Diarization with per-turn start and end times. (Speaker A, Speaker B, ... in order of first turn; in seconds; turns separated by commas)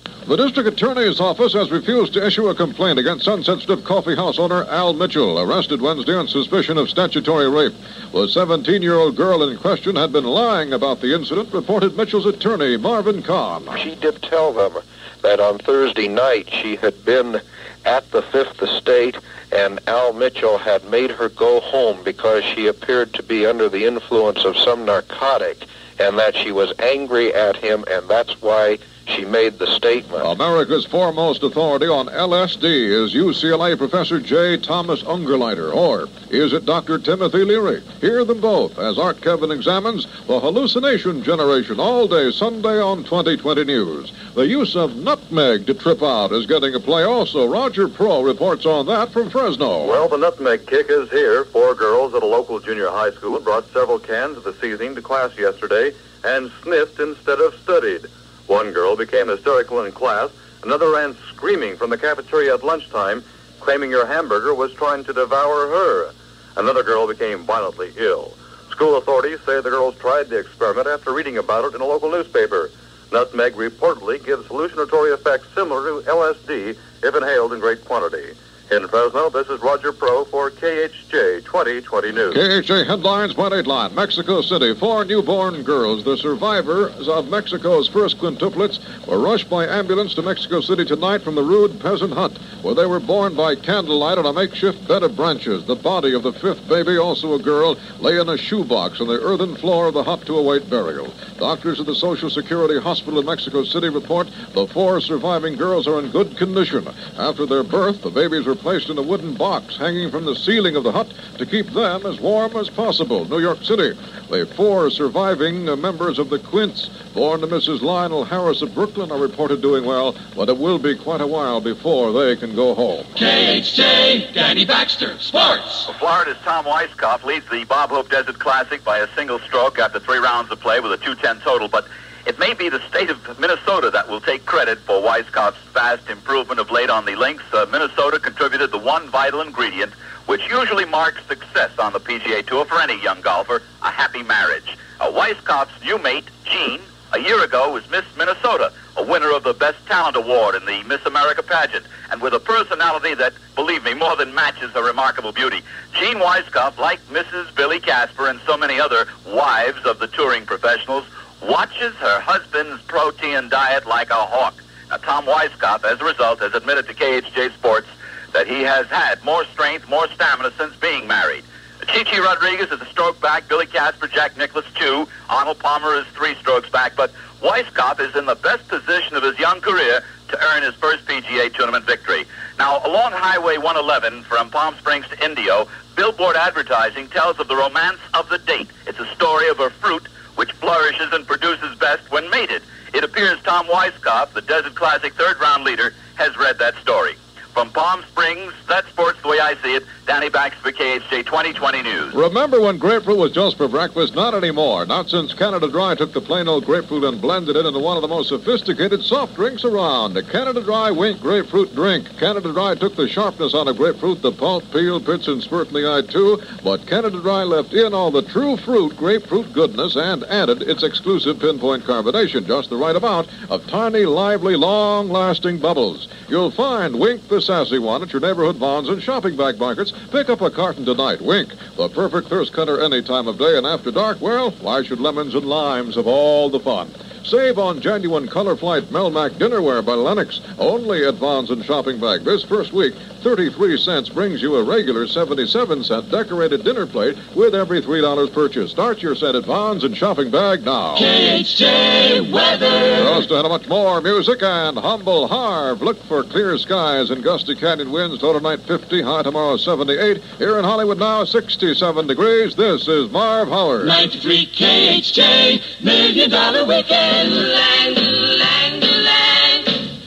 Speaker A: 0.3-13.8, Speaker B: 13.7-30.3, Speaker A: 30.2-50.0, Speaker C: 49.8-82.4, Speaker A: 82.3-123.1, Speaker D: 123.2-125.8, Speaker E: 125.8-202.2, Speaker A: 202.1-251.1, Speaker D: 250.9-253.1, Speaker A: 252.9-264.0, Speaker D: 263.8-269.9